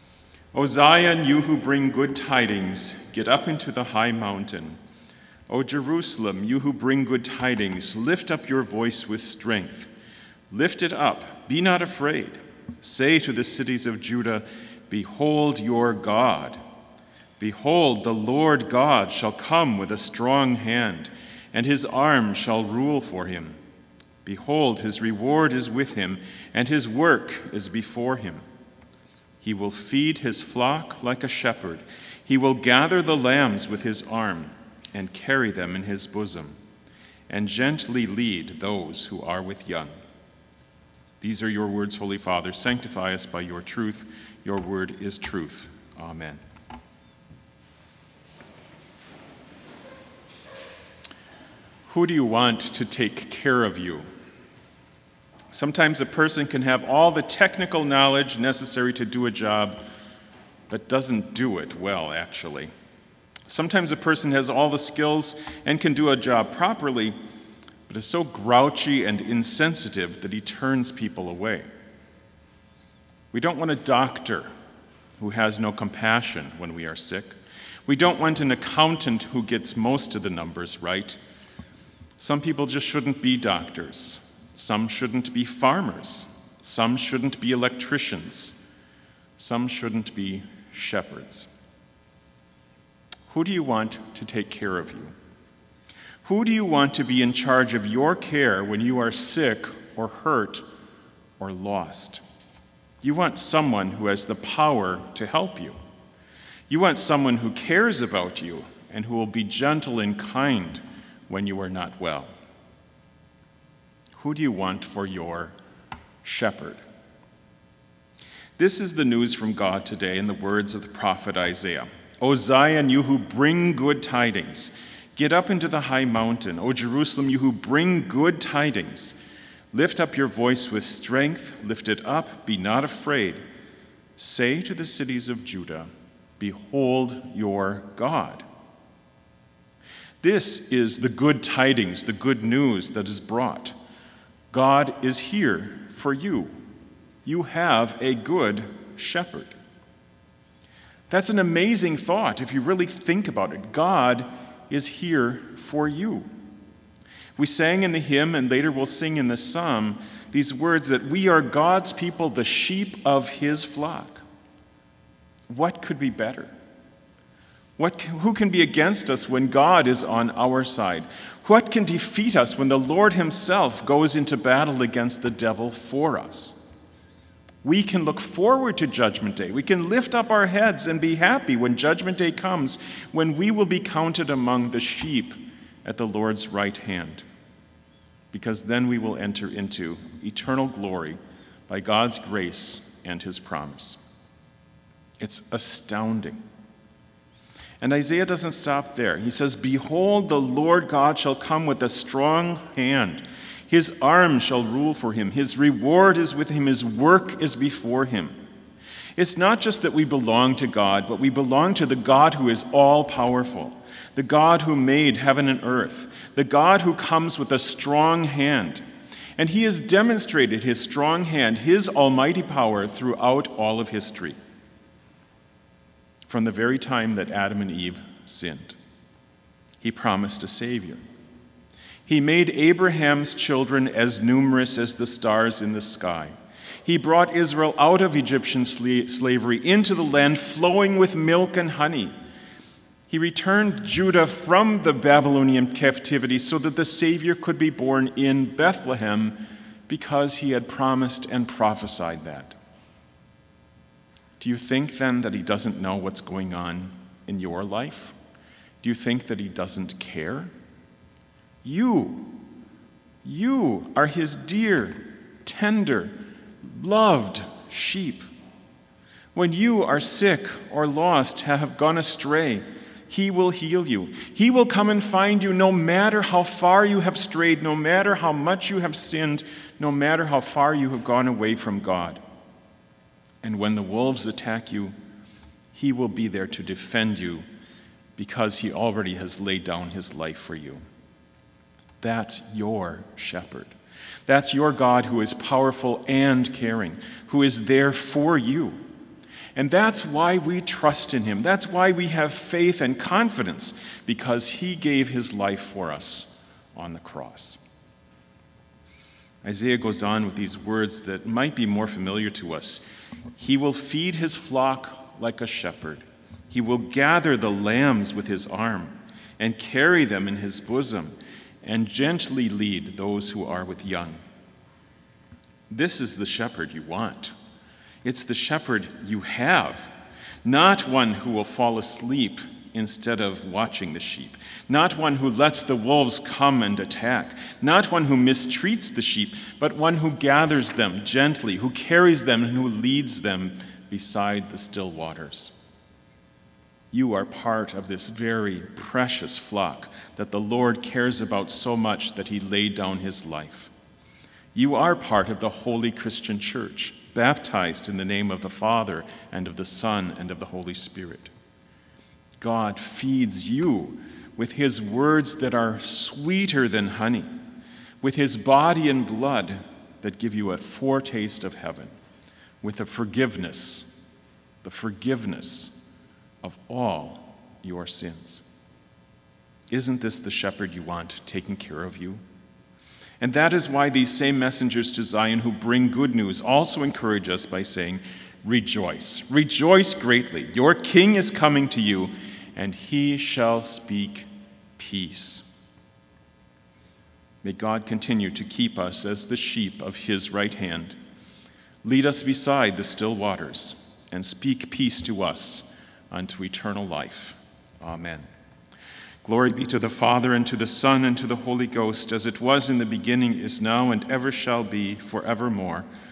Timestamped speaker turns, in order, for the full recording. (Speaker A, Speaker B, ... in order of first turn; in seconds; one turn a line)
Speaker A: 0.5-4.8
Speaker A: 5.5-9.9
Speaker A: 10.5-16.6
Speaker A: 17.4-23.6
Speaker A: 24.2-28.4
Speaker A: 29.4-36.6
Speaker A: 37.3-39.9
Speaker A: 41.2-46.4
Speaker A: 51.9-54.0
Speaker A: 55.5-59.8
Speaker A: 60.7-62.7
Speaker A: 63.5-67.2
Speaker A: 67.9-71.7
Speaker A: 73.3-74.5
Speaker A: 75.2-81.2
Speaker A: 82.2-88.6
Speaker A: 89.4-91.5
Speaker A: 93.3-95.1
Speaker A: 96.2-100.6
Speaker A: 101.4-102.2
Speaker A: 103.0-105.8
Speaker A: 106.7-112.3
Speaker A: 114.2-115.5
Speaker A: 116.2-116.8
Speaker A: 118.6-129.2
Speaker A: 129.7-133.4
Speaker A: 134.2-138.4
Speaker A: 140.2-143.7
Speaker A: 144.5-146.5
Speaker A: 147.2-149.6
Speaker A: 151.1-156.3
Speaker A: 157.4-164.2
Speaker A: 165.5-166.5
Speaker A: 167.8-176.6
Speaker A: 177.6-187.2
Speaker A: 188.3-194.0
Speaker A: 195.2-196.4
Speaker A: 197.8-208.3
Speaker A: 209.2-218.8
Speaker A: 219.4-224.4
Speaker A: 226.2-228.8
Speaker A: 229.8-231.0
Speaker A: 232.1-236.3
Speaker A: 236.8-242.1
Speaker A: 243.1-252.6
Speaker A: 254.4-258.1
Speaker A: 258.8-260.5
Speaker A: 261.6-262.4
Speaker A: 263.2-268.2
Speaker A: 269.3-282.2
Speaker A: 283.4-284.9
Speaker A: 285.7-287.4
Speaker A: 288.2-290.8
Speaker A: 292.0-293.7
Speaker A: 294.3-298.8
Speaker A: 299.5-307.6
Speaker A: 309.4-312.8
Speaker A: 313.4-324.2
Speaker A: 325.7-327.3
Speaker A: 328.0-329.9
Speaker A: 330.4-345.5
Speaker A: 346.9-353.7
Speaker A: 354.5-361.3
Speaker A: 362.4-367.3
Speaker A: 368.0-371.9
Speaker A: 372.6-373.9
Speaker A: 374.6-375.7
Speaker A: 376.4-378.4
Speaker A: 379.7-382.2
Speaker A: 383.2-395.4
Speaker A: 397.4-401.0
Speaker A: 401.8-408.3
Speaker A: 409.2-415.9